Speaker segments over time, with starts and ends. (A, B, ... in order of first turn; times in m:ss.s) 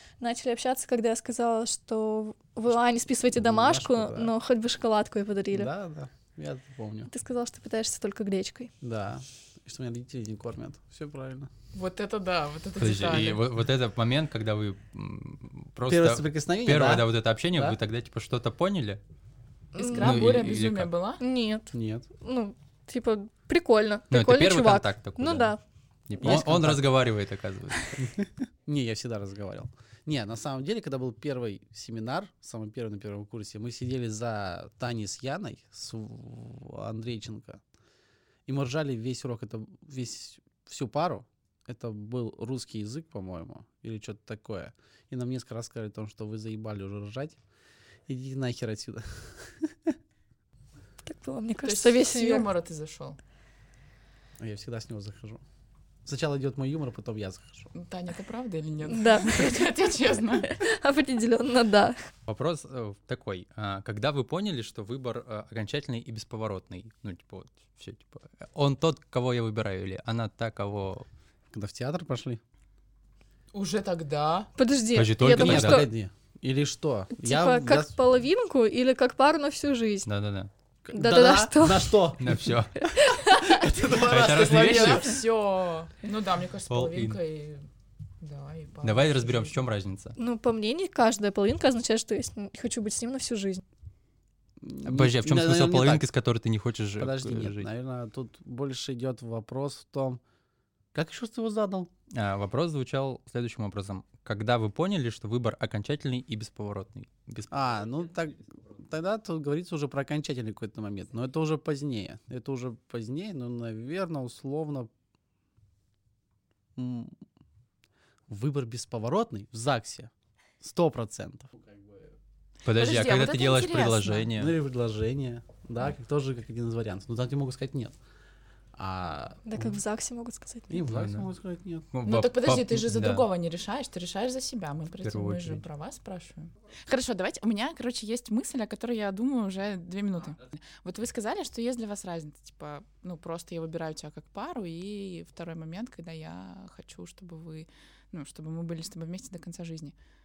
0:00.2-0:05.7 A
0:03.3-0:04.3 B
0:05.5-0:07.1 B
0:07.1-0:08.7 A
0:08.8-0:11.5 B
0:11.7-0:13.4 C
0:12.8-0:19.0 D
0:15.9-0:17.8 B
0:19.7-0:21.2 C
0:19.8-0:20.3 A
0:19.8-0:20.9 D
0:21.2-0:25.6 A
0:21.7-0:22.1 B
0:24.1-0:25.5 D
0:26.1-0:28.0 D
0:26.2-0:26.9 B
0:28.0-0:37.6 B
0:38.5-0:47.4 B
0:48.1-0:50.0 B
0:51.1-0:52.5 A
0:51.6-0:53.2 C
0:54.4-0:55.4 B
0:56.0-0:57.7 B
0:57.7-1:00.6 C
0:58.9-0:59.7 A
1:00.4-1:02.0 A
1:02.3-1:11.1 D
1:11.5-1:12.4 B
1:13.5-1:14.5 C
1:14.6-1:15.9 A
1:14.9-1:15.9 D
1:15.2-1:18.0 B
1:17.2-1:20.1 A
1:20.1-1:20.5 D
1:20.8-1:22.5 B
1:20.9-1:22.1 A
1:22.2-1:22.9 D
1:22.8-1:23.6 A
1:23.2-1:25.1 B
1:23.9-1:27.7 C
1:24.0-1:25.2 D
1:26.7-1:27.2 D
1:28.2-1:29.7 C
1:28.8-1:30.2 D
1:30.2-1:33.6 A
1:34.6-1:36.0 B
1:34.9-1:37.7 D
1:37.0-1:40.2 B
1:40.9-1:41.9 B
1:42.1-1:48.1 D
1:47.5-1:54.9 B
1:56.8-1:57.2 B
1:58.3-2:02.2 B
2:02.6-2:04.6 D
2:02.7-2:04.3 C
2:04.4-2:08.0 B
2:08.8-2:09.8 B
2:09.5-2:10.8 A
2:10.7-2:11.9 B
2:10.9-2:11.3 D
2:11.9-2:13.3 D
2:12.1-2:30.0 C
2:15.0-2:15.6 D